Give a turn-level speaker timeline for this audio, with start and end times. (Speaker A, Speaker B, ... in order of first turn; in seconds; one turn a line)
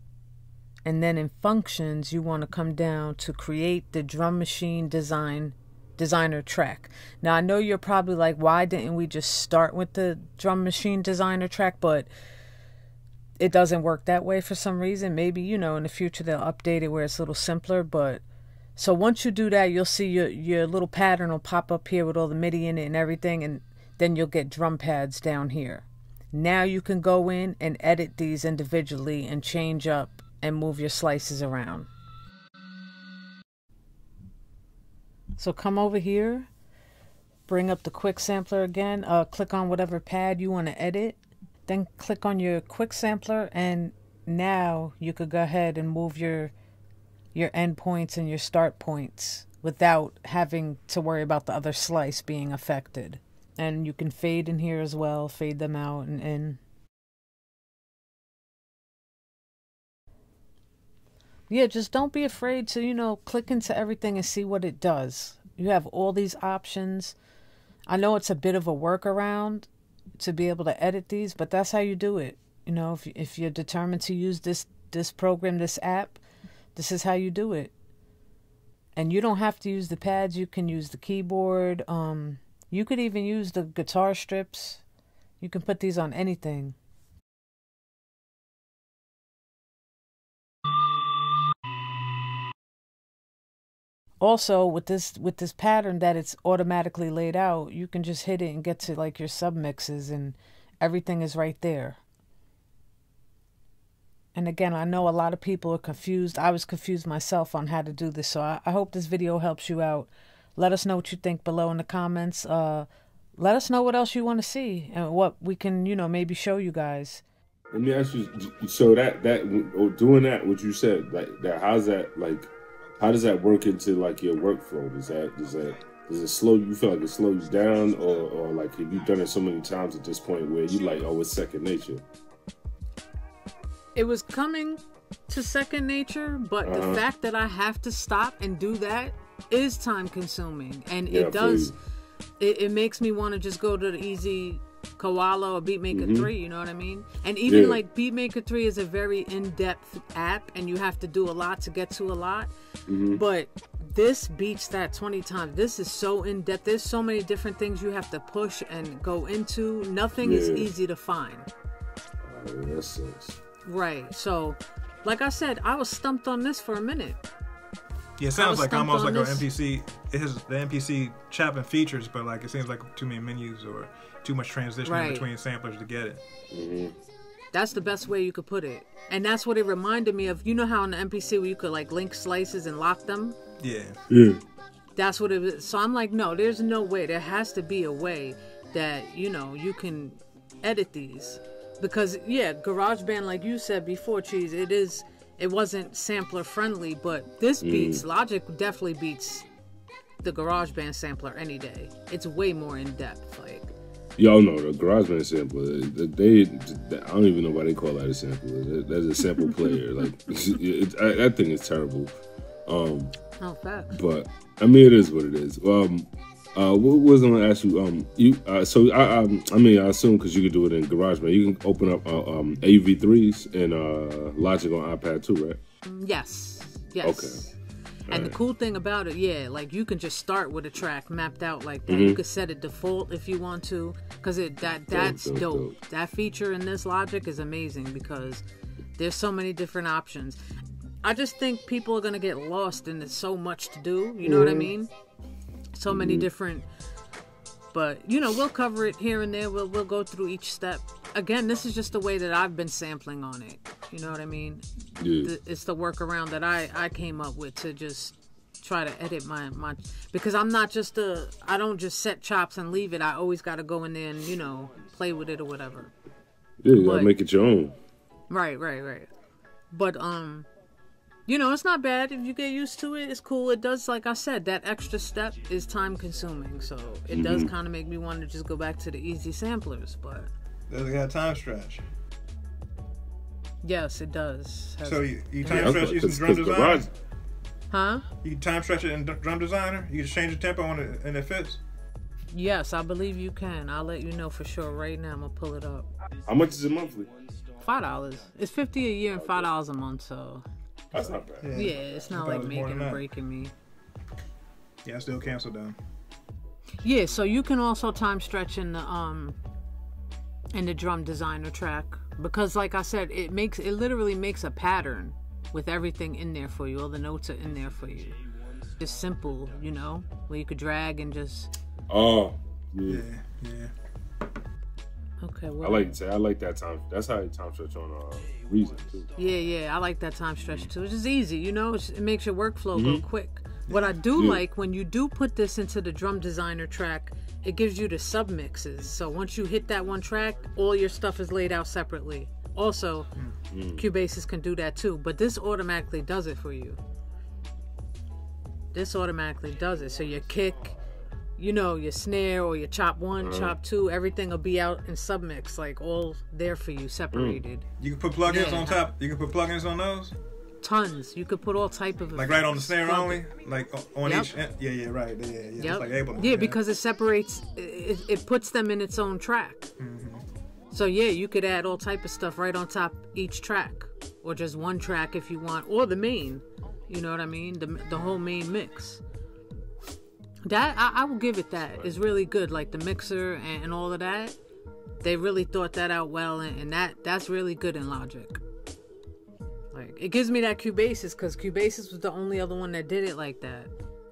Speaker A: 0.9-12.1
Speaker A: 13.4-18.2
Speaker A: 18.8-31.9
Speaker A: 35.4-36.5
Speaker A: 37.5-46.5
Speaker A: 47.3-56.6
Speaker A: 61.5-67.2
Speaker A: 67.9-76.2
Speaker A: 76.8-77.7
Speaker A: 79.0-84.8
Speaker A: 85.4-86.8
Speaker A: 94.2-102.0
Speaker A: 104.3-112.9
Speaker A: 113.4-117.2
Speaker B: 117.7-132.0
Speaker A: 134.0-141.7
Speaker B: 136.6-137.0
Speaker B: 141.1-141.7
Speaker A: 142.4-152.5
Speaker B: 145.9-146.3
Speaker B: 147.5-147.8
Speaker B: 152.9-153.2
Speaker A: 153.1-161.5
Speaker B: 160.2-160.7
Speaker B: 162.2-163.4
Speaker A: 163.7-167.2
Speaker C: 168.2-176.2
Speaker A: 168.4-169.4
Speaker A: 174.8-175.3
Speaker B: 176.5-176.9
Speaker A: 177.5-183.4
Speaker C: 183.6-184.0
Speaker B: 184.1-184.4
Speaker A: 185.0-199.5
Speaker B: 197.6-198.0
Speaker A: 200.2-203.8
Speaker B: 204.2-212.1
Speaker B: 212.7-213.2
Speaker A: 213.4-214.0
Speaker B: 213.9-225.6
Speaker A: 225.8-227.6
Speaker B: 227.0-227.4
Speaker A: 228.1-238.4
Speaker B: 228.1-228.4
Speaker B: 231.9-232.2
Speaker B: 234.9-235.8
Speaker A: 239.0-240.4
Speaker A: 241.0-244.9
Speaker B: 244.2-244.7
Speaker A: 245.8-246.7
Speaker B: 245.9-246.3
Speaker A: 247.7-254.6
Speaker B: 255.0-255.3
Speaker A: 255.2-265.9
Speaker B: 266.6-267.8
Speaker A: 266.7-267.1
Speaker A: 268.3-269.1
Speaker A: 269.7-270.5
Speaker A: 271.3-280.3
Speaker B: 277.1-277.5
Speaker C: 280.7-281.8
Speaker A: 283.6-285.8
Speaker C: 284.8-286.9
Speaker B: 285.5-286.9
Speaker A: 287.7-288.1
Speaker C: 288.2-291.6
Speaker A: 292.3-295.9
Speaker B: 296.3-297.1
Speaker A: 297.6-300.4
Speaker B: 299.1-299.5
Speaker B: 300.9-301.7
Speaker C: 301.4-303.0
Speaker A: 301.6-303.5
Speaker C: 304.9-305.8
Speaker A: 306.8-309.4
Speaker A: 310.5-318.2
Speaker A: 318.8-321.5
Speaker B: 321.9-323.1
Speaker C: 322.9-323.7
Speaker A: 325.2-325.9
Speaker B: 325.6-329.1
Speaker A: 329.2-343.1
Speaker B: 332.7-333.0
Speaker C: 333.7-333.9
Speaker B: 334.1-334.4
Speaker B: 343.5-343.9
Speaker A: 343.8-346.8
Speaker A: 348.7-350.8
Speaker A: 351.4-357.6
Speaker B: 353.2-353.6
Speaker B: 357.1-357.4
Speaker C: 357.8-360.1
Speaker A: 358.3-358.9
Speaker A: 360.6-363.2
Speaker C: 362.1-366.6
Speaker A: 364.0-364.3
Speaker A: 365.6-369.7
Speaker C: 369.8-370.2
Speaker A: 370.7-379.0
Speaker A: 380.4-384.4
Speaker A: 385.0-388.4
Speaker A: 389.7-393.7